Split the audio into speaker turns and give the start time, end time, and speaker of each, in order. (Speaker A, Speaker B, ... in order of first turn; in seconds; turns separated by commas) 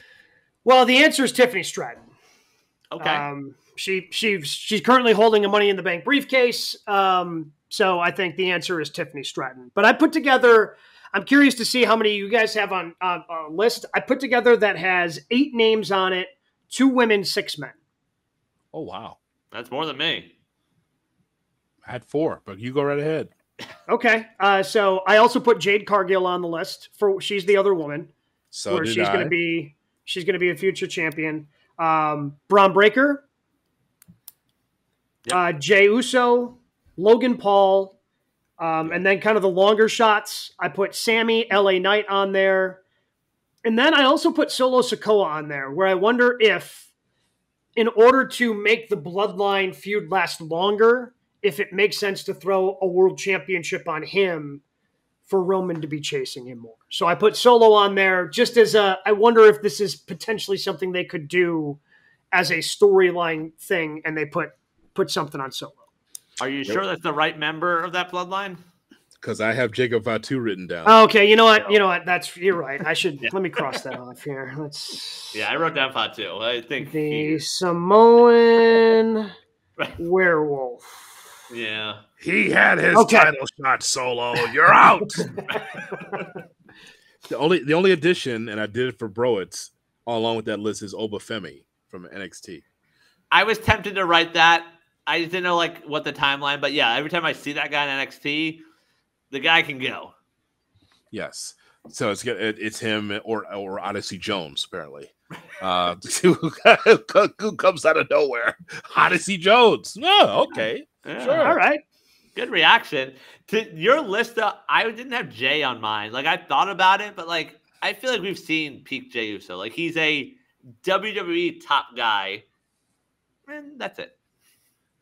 Speaker A: 0.6-2.1, Speaker B: 2.9-3.3, Speaker A: 3.0-17.8, Speaker C: 18.7-19.2, Speaker B: 19.5-20.3, Speaker C: 21.9-23.3, Speaker A: 23.9-28.1, Speaker C: 28.5-29.3, Speaker A: 28.7-33.2, Speaker A: 35.3-38.0, Speaker A: 38.6-42.8, Speaker A: 43.6-46.9, Speaker A: 47.8-54.6, Speaker A: 55.3-61.8, Speaker A: 62.3-65.8, Speaker B: 66.4-68.6, Speaker C: 69.2-71.0, Speaker A: 70.9-75.4, Speaker B: 73.2-73.8, Speaker B: 75.3-77.4, Speaker A: 76.8-79.3, Speaker A: 80.0-81.0, Speaker B: 81.5-82.0, Speaker C: 82.2-85.4, Speaker A: 82.9-83.3, Speaker B: 85.5-86.2, Speaker C: 87.3-92.6, Speaker B: 93.3-98.6, Speaker B: 99.3-100.1, Speaker C: 101.1-111.6, Speaker B: 111.0-111.6, Speaker A: 111.4-111.8, Speaker B: 112.3-122.5, Speaker B: 123.5-124.2